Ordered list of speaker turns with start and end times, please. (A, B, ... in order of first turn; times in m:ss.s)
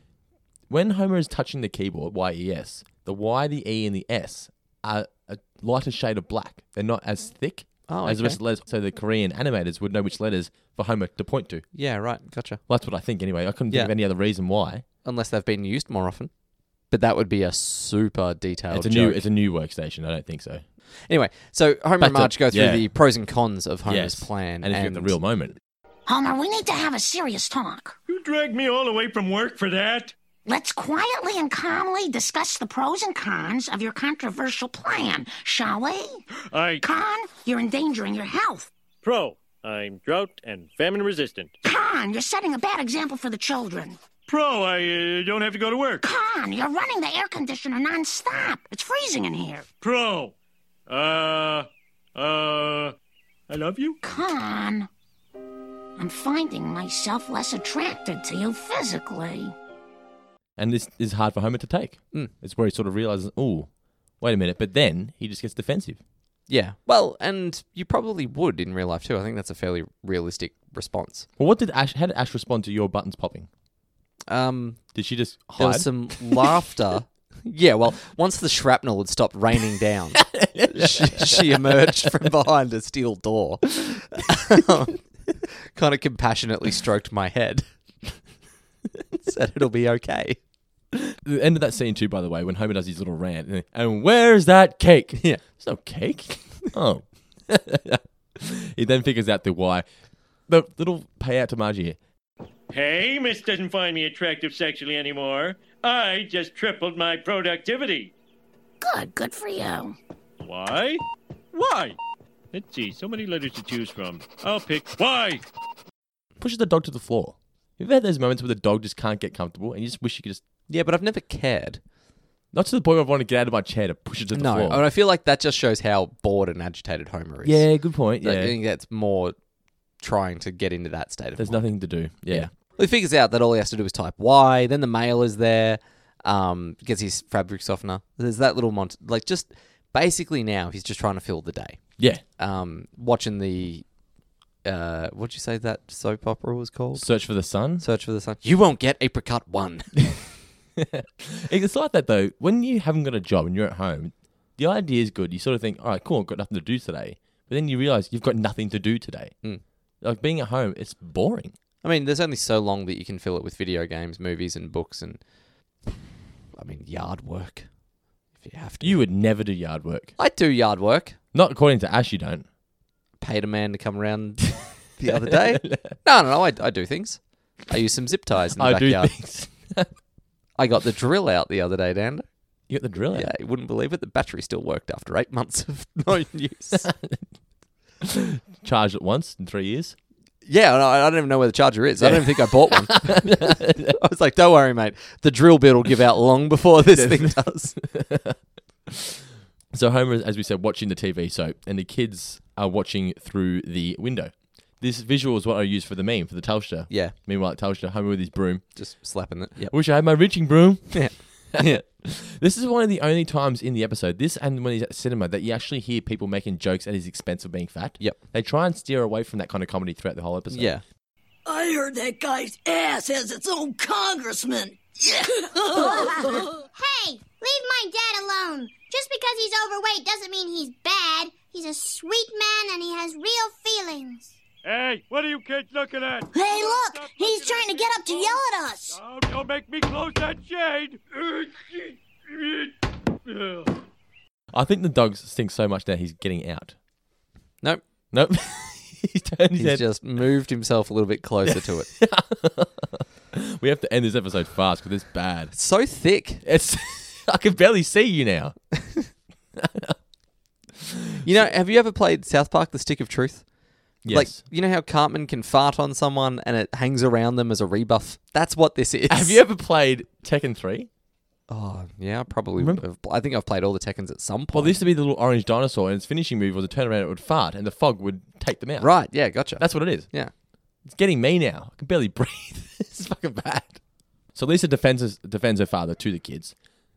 0:00.7-0:11.6 A
0:07.9-0:08.4 B
0:11.7-0:12.6 B
0:12.7-0:14.8 A
0:15.0-0:16.3 B
0:16.9-0:19.2 B
0:18.7-0:20.6 A
0:21.1-0:25.2 B
0:22.0-0:22.9 A
0:23.8-0:25.6 A
0:26.0-0:28.0 C
0:28.1-0:30.1 D
0:30.4-0:36.2 C
0:36.5-0:36.8 D
0:36.8-0:38.7 C
0:39.0-0:41.5 D
0:41.6-0:44.0 C
0:44.3-0:46.0 D
0:46.0-0:49.6 C
0:49.8-0:50.3 D
0:50.9-0:52.9 D
0:53.5-0:54.0 D
0:54.0-0:54.9 C
0:56.0-0:59.5 C
1:00.6-1:06.0 A
1:06.5-1:11.3 B
1:11.4-1:13.5 A
1:14.3-1:15.0 B
1:14.9-1:16.6 A
1:15.5-1:28.2 B
1:20.2-1:22.2 A
1:29.1-1:30.4 B
1:31.2-1:39.8 A
1:35.1-1:35.4 B
1:40.5-1:42.0 A
1:42.7-1:48.1 D
1:48.8-1:50.0 C
1:50.4-1:52.0 D
1:52.5-1:55.4 D
1:56.4-2:00.4 A
2:00.7-2:01.8 B
2:02.5-2:04.8 A
2:04.3-2:09.4 B
2:07.4-2:08.5 A
2:10.0-2:11.7 B
2:11.4-2:12.5 A
2:12.3-2:23.8 B
2:22.0-2:22.2 A
2:24.6-2:30.2 B
2:26.9-2:27.8 A
2:30.8-2:39.3 A
2:40.0-2:41.5 A
2:41.8-2:45.2 B
2:46.5-2:47.7 B
2:48.4-2:49.0 B
2:48.8-2:50.2 A
2:50.2-2:51.2 B
2:51.3-2:52.4 A
2:53.2-2:59.2 B
2:55.1-2:56.0 A
2:58.6-2:59.9 A
3:00.6-3:02.2 B
3:02.7-3:03.3 A
3:03.1-3:06.9 B
3:06.8-3:07.2 A
3:08.0-3:10.0 A
3:10.4-3:17.8 B
3:12.0-3:13.9 A
3:16.9-3:18.4 A
3:19.7-3:28.6 A
3:26.9-3:27.1 B
3:28.7-3:29.8 B
3:29.6-3:40.7 A
3:30.9-3:31.8 B
3:40.5-3:40.8 B
3:41.4-3:46.5 E
3:45.8-3:46.1 F
3:46.7-3:54.4 F
3:54.6-3:58.4 D
3:56.3-3:59.0 F
3:58.9-4:02.7 D
4:03.3-4:03.7 D
4:04.5-4:06.8 A
4:08.1-4:09.9 A
4:09.6-4:11.9 B
4:11.5-4:15.5 A
4:15.5-4:16.4 B
4:16.4-4:18.6 A
4:19.6-4:19.9 A
4:21.2-4:23.5 B
4:24.0-4:24.4 A
4:24.1-4:29.4 B
4:29.1-4:30.9 A
4:31.5-4:34.8 B
4:32.6-4:32.8 A
4:34.5-4:38.9 A
4:38.8-4:40.3 B
4:39.5-4:40.1 A
4:40.8-4:43.8 A
4:44.3-4:46.6 A